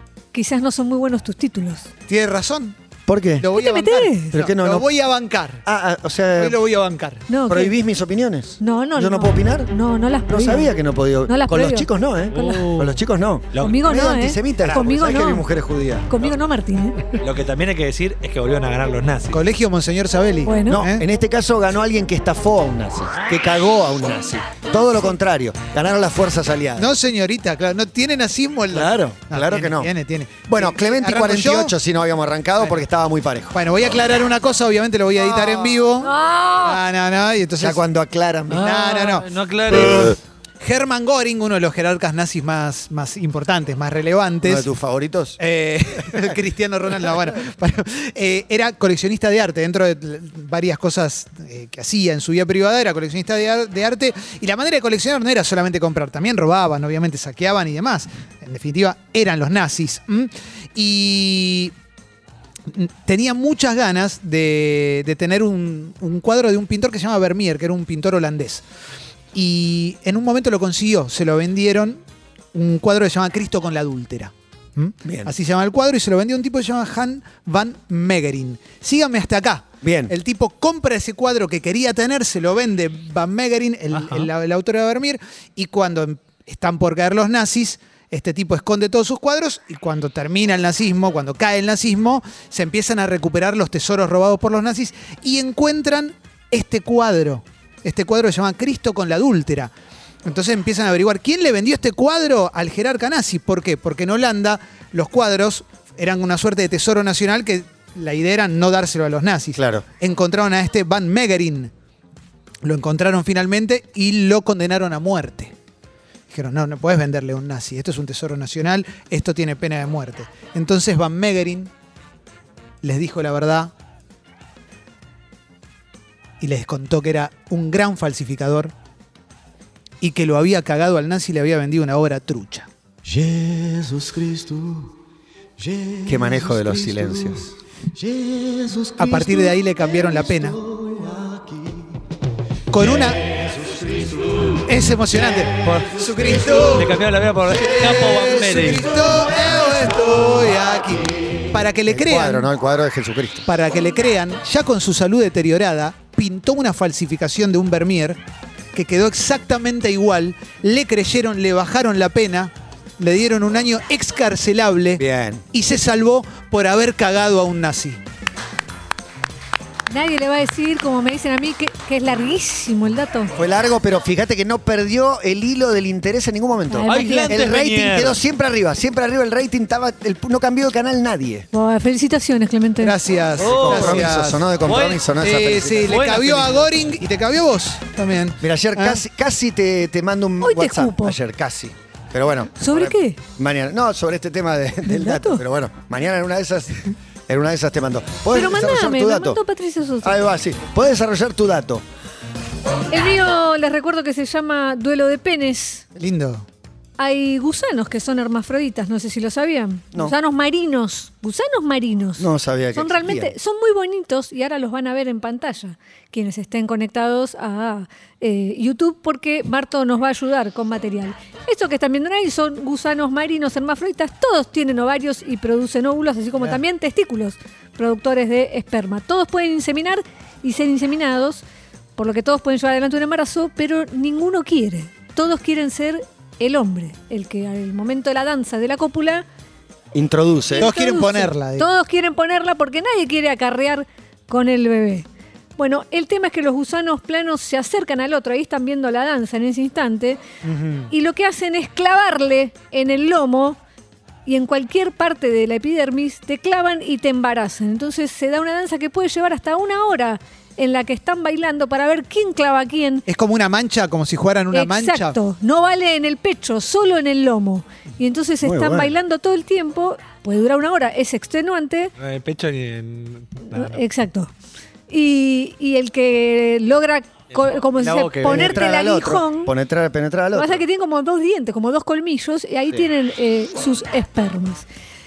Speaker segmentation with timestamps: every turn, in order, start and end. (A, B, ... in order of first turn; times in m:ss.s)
0:00.3-0:01.9 A
0:02.1-0:02.8 B
0:03.1-0:03.5 C
0:03.4-0:05.6 B
0:03.6-0:04.3 A
0:04.3-0:04.9 C
0:05.6-0:06.6 C
0:06.4-0:07.2 B
0:07.3-0:07.7 A
0:07.5-0:09.7 C
0:08.6-0:10.7 A
0:10.3-0:16.1 C
0:11.3-0:12.8 A
0:12.3-0:13.0 D
0:13.5-0:13.8 D
0:13.6-0:15.4 A
0:16.1-0:17.0 A
0:17.2-0:19.4 D
0:19.3-0:21.0 B
0:20.4-0:20.8 A
0:20.7-0:26.9 C
0:26.8-0:31.7 B
0:28.7-0:29.9 C
0:30.5-0:33.6 C
0:33.5-0:37.8 B
0:35.1-0:35.9 C
0:36.0-0:36.8 A
0:37.6-0:38.7 C
0:38.5-0:40.2 D
0:38.5-0:44.7 B
0:44.4-0:45.4 C
0:45.4-1:01.7 B
1:02.7-1:08.6 B
1:09.3-1:12.0 B
1:12.5-1:39.7 B
1:15.0-1:15.3 C
1:19.8-1:20.1 C
1:23.9-1:24.3 D
1:40.3-1:51.7 B
1:49.6-1:49.9 C
1:52.6-1:55.5 B
1:56.3-2:01.7 B
2:02.8-2:03.7 B
2:06.4-2:08.7 B
2:10.0-2:12.7 B
2:13.1-2:14.5 C
2:15.9-2:17.6 C
2:18.2-2:19.5 C
2:19.0-2:20.6 B
2:20.6-2:21.6 C
2:22.7-2:23.2 B
2:23.6-2:24.2 C
2:24.7-2:27.0 B
2:25.6-2:26.0 D
2:26.5-2:28.9 D
2:27.5-2:32.5 B
2:31.9-2:33.5 C
2:33.5-2:38.2 B
2:38.7-2:45.0 B
2:45.0-2:45.4 C
2:45.5-2:48.0 B
2:49.9-2:53.3 A
2:53.4-3:01.5 C
2:56.7-2:57.4 A
2:56.9-2:58.2 D
3:01.5-3:03.0 A
3:02.8-3:04.4 B
3:03.4-3:05.0 D
3:03.4-3:06.0 C
3:05.2-3:09.0 B
3:05.8-3:07.0 D
3:08.4-3:19.4 C
3:10.4-3:11.2 A
3:12.6-3:13.2 A
3:14.8-3:15.4 A
3:18.3-3:20.2 A
3:20.0-3:21.8 C
3:22.9-3:25.8 A
3:26.0-3:26.5 B
3:27.0-3:51.4 A
3:32.2-3:33.3 C
3:52.0-3:59.2 A
3:59.9-4:00.7 C
4:00.5-4:10.2 A
4:00.6-4:01.7 B
4:10.4-4:10.9 B
4:10.9-4:13.6 A
4:14.3-4:23.1 A
4:23.1-4:25.2 B
4:24.5-4:31.9 A
4:28.4-4:29.0 C
4:32.0-4:33.8 D
4:33.5-4:34.3 A
4:34.9-4:39.5 A
4:37.4-4:38.6 D
4:38.0-4:40.6 C
4:40.3-4:44.7 A